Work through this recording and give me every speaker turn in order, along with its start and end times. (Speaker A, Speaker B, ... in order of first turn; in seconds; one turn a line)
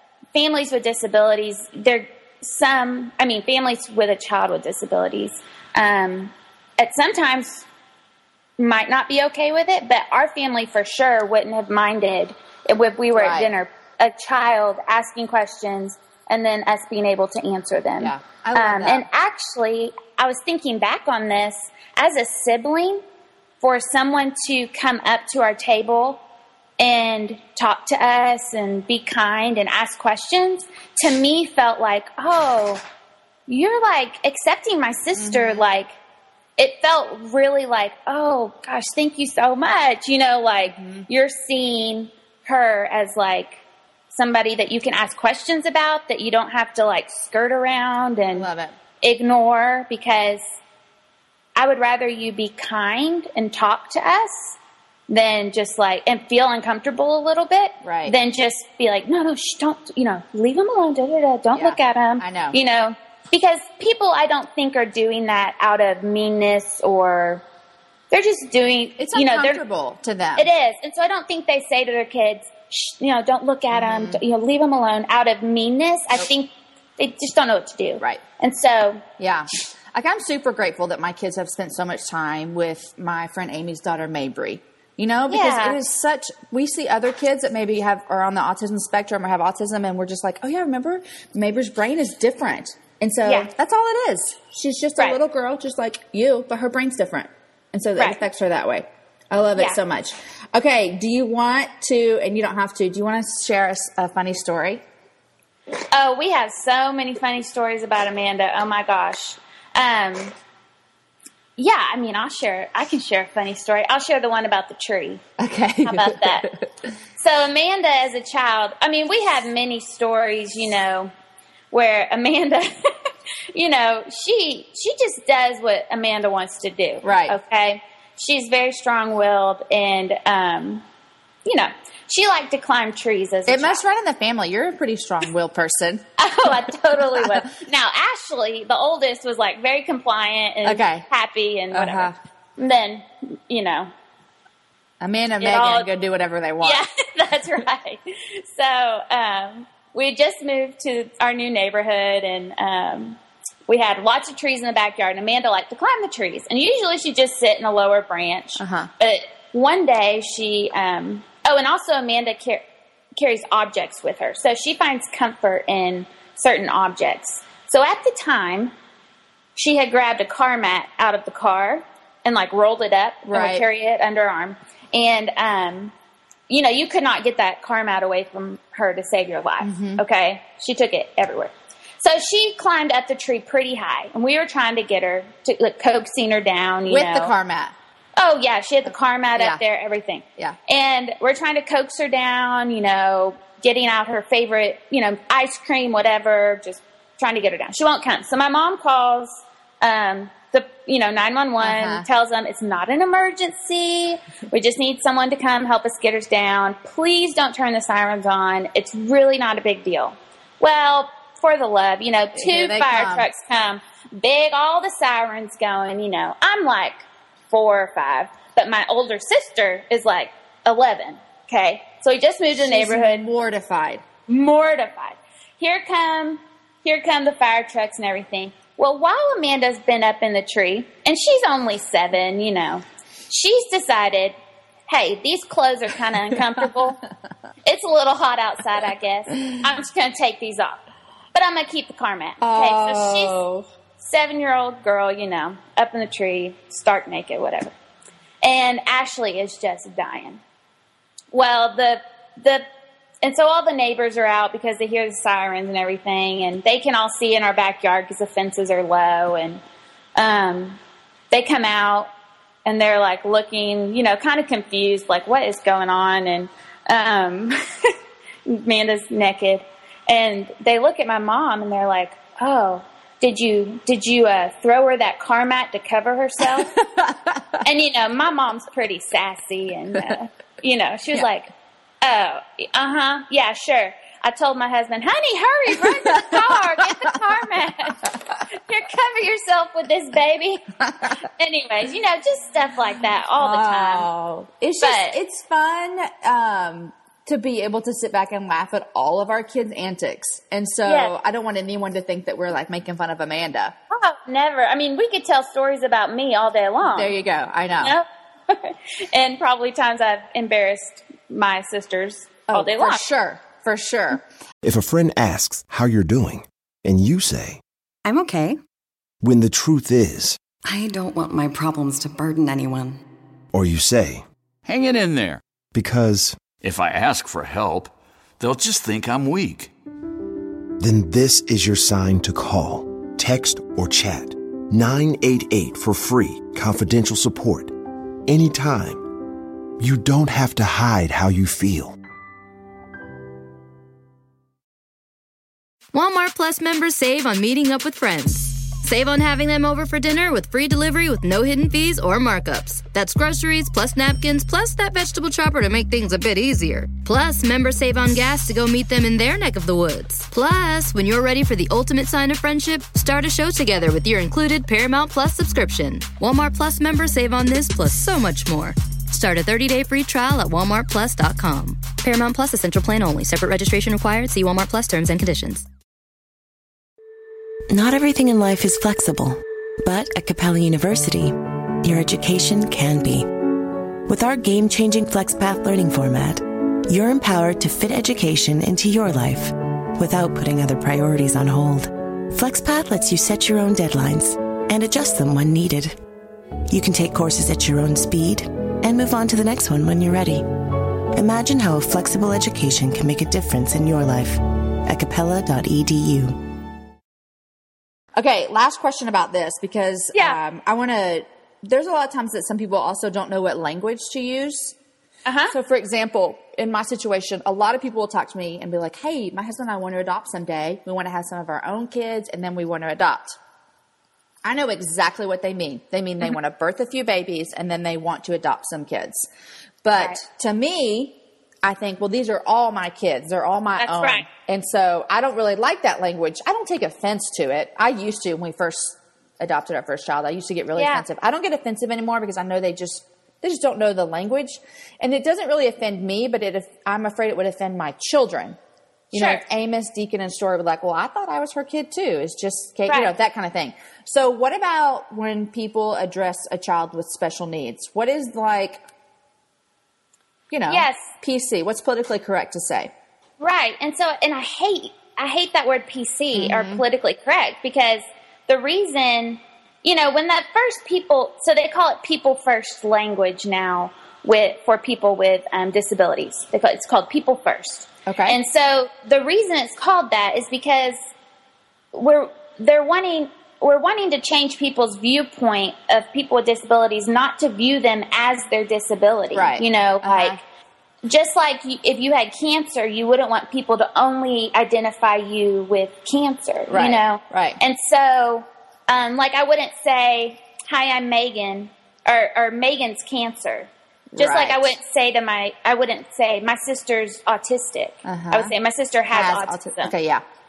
Speaker A: 0.3-7.6
Speaker A: 8.6-23.0
Speaker B: 13.1-13.5
Speaker B: 18.0-19.1
Speaker A: 23.6-26.2
Speaker A: 26.8-32.8
Speaker A: 33.5-36.0
Speaker B: 35.1-35.7
Speaker A: 36.6-48.5
Speaker B: 40.6-41.0
Speaker B: 48.3-48.7
Speaker A: 49.0-50.4
Speaker A: 51.6-54.5
Speaker A: 55.1-67.4
Speaker B: 57.8-58.1
Speaker B: 61.5-62.6
Speaker A: 68.1-69.6
Speaker B: 69.0-70.5
Speaker A: 70.4-79.0
Speaker B: 73.7-74.2
Speaker B: 79.2-104.8
Speaker A: 85.3-85.8
Speaker A: 93.2-93.5
Speaker A: 105.9-110.3
Speaker A: 111.6-115.2
Speaker B: 115.4-116.7
Speaker A: 115.8-116.5
Speaker A: 117.2-121.1
Speaker A: 121.7-122.9
Speaker A: 123.5-130.8
Speaker B: 127.0-127.4
Speaker A: 131.4-133.8
Speaker B: 133.5-137.5
Speaker A: 136.2-143.9
Speaker B: 140.6-141.1
Speaker B: 141.7-142.2
Speaker B: 145.0-146.8
Speaker A: 145.4-145.9
Speaker A: 146.6-162.6
Speaker B: 158.6-158.9
Speaker A: 163.2-168.7
Speaker A: 169.6-175.9
Speaker B: 173.2-173.7
Speaker A: 176.5-187.3
Speaker B: 179.6-180.0
Speaker B: 186.9-187.8
Speaker A: 188.2-223.3
Speaker B: 189.4-189.6
Speaker B: 201.6-202.1
Speaker B: 212.3-213.3
Speaker B: 222.5-224.0
Speaker A: 224.3-234.4
Speaker A: 234.9-237.0
Speaker A: 237.6-243.4
Speaker B: 242.4-243.7
Speaker A: 244.0-247.7
Speaker A: 248.4-250.4
Speaker A: 251.3-252.6
Speaker A: 253.2-259.6
Speaker A: 260.1-260.8
Speaker A: 261.3-262.1
Speaker A: 262.6-267.9
Speaker A: 268.5-276.8
Speaker B: 276.8-277.6
Speaker A: 277.6-281.5
Speaker A: 282.0-294.1
Speaker B: 286.1-286.5
Speaker B: 293.4-303.8
Speaker A: 294.8-295.2
Speaker A: 300.9-301.1
Speaker A: 303.9-307.1
Speaker B: 306.8-308.0
Speaker A: 307.8-313.0
Speaker B: 312.5-314.2
Speaker C: 314.6-317.6
Speaker D: 318.1-318.6
Speaker C: 319.2-320.4
Speaker D: 320.6-323.0
Speaker C: 323.5-324.3
Speaker E: 324.6-325.4
Speaker C: 325.7-326.4
Speaker E: 326.6-329.7
Speaker C: 330.8-337.8
Speaker C: 338.3-339.1
Speaker C: 339.8-342.0
Speaker F: 345.9-375.6
Speaker G: 377.7-383.3
Speaker G: 384.1-395.9
Speaker G: 396.7-400.4
Speaker G: 401.1-406.4
Speaker B: 408.1-414.8
Speaker A: 410.1-410.4
Speaker A: 415.3-415.6
Speaker B: 415.5-423.4
Speaker B: 424.4-429.3
Speaker B: 429.8-448.6
Speaker A: 433.8-434.2
Speaker A: 440.8-441.0
Speaker B: 449.1-458.8
Speaker A: 449.1-449.4
Speaker A: 452.9-453.1
Speaker B: 460.5-462.9
Speaker A: 460.7-461.1
Speaker A: 463.4-481.0
Speaker B: 466.3-466.8
Speaker B: 478.1-478.4
Speaker A: 481.9-490.4
Speaker B: 489.3-490.4
Speaker A: 491.1-509.9
Speaker B: 496.7-497.6
Speaker B: 504.1-504.8
Speaker B: 508.0-508.5
Speaker B: 509.1-510.2